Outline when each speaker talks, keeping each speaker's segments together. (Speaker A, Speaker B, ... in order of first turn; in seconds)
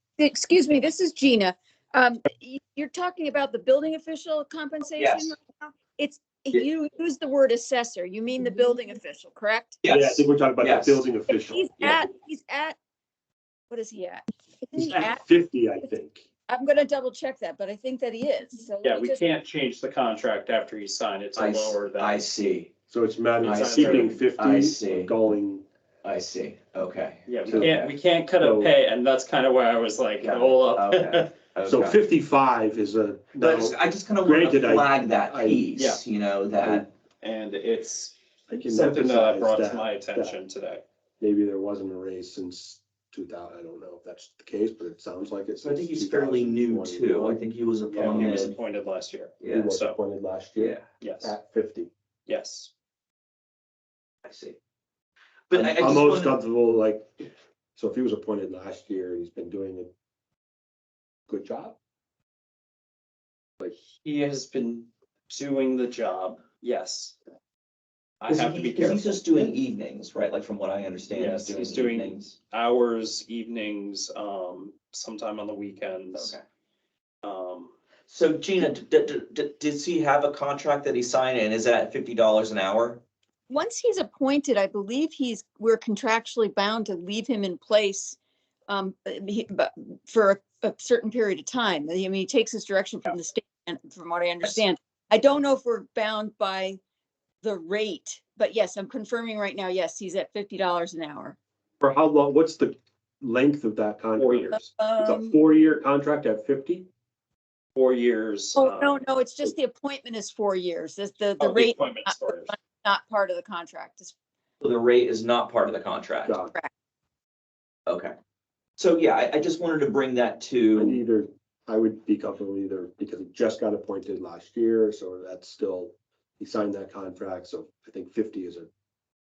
Speaker A: 0.2-9.8, 11.5-12.8, 13.7-15.2, 16.5-19.2, 83.5-88.2, 88.7-96.8, 97.4-101.4, 104.5-105.3, 108.5-114.1
Speaker B: 5.0-5.4, 9.8-11.0, 21.4-22.7, 23.4-25.1, 26.0-27.9, 30.2-32.0, 33.4-36.9, 45.6-48.6, 49.4-49.7, 50.5-50.9, 54.2-54.6, 55.5-56.4, 68.3-72.3, 76.1-76.4, 78.1-83.0, 114.6-116.4, 117.9-118.1, 118.8-121.0
Speaker C: 9.9-12.0, 14.8-16.2, 22.9-25.6, 27.5-28.7, 31.6-35.7, 38.5-40.3, 41.2-47.4, 48.0-48.5, 49.5-51.9, 55.5-59.9, 61.3-61.8, 101.8-106.9, 116.2-116.5, 120.8-128.7
Speaker D: 18.8-22.2, 23.4-24.2, 27.2-31.3, 35.8-36.0, 37.2-40.8, 47.9-50.0, 51.0-51.3, 52.3-52.7, 64.0-67.2, 68.2-69.4, 71.1-76.3, 77.2-77.7, 104.2-104.5, 107.8-109.0, 111.4-112.5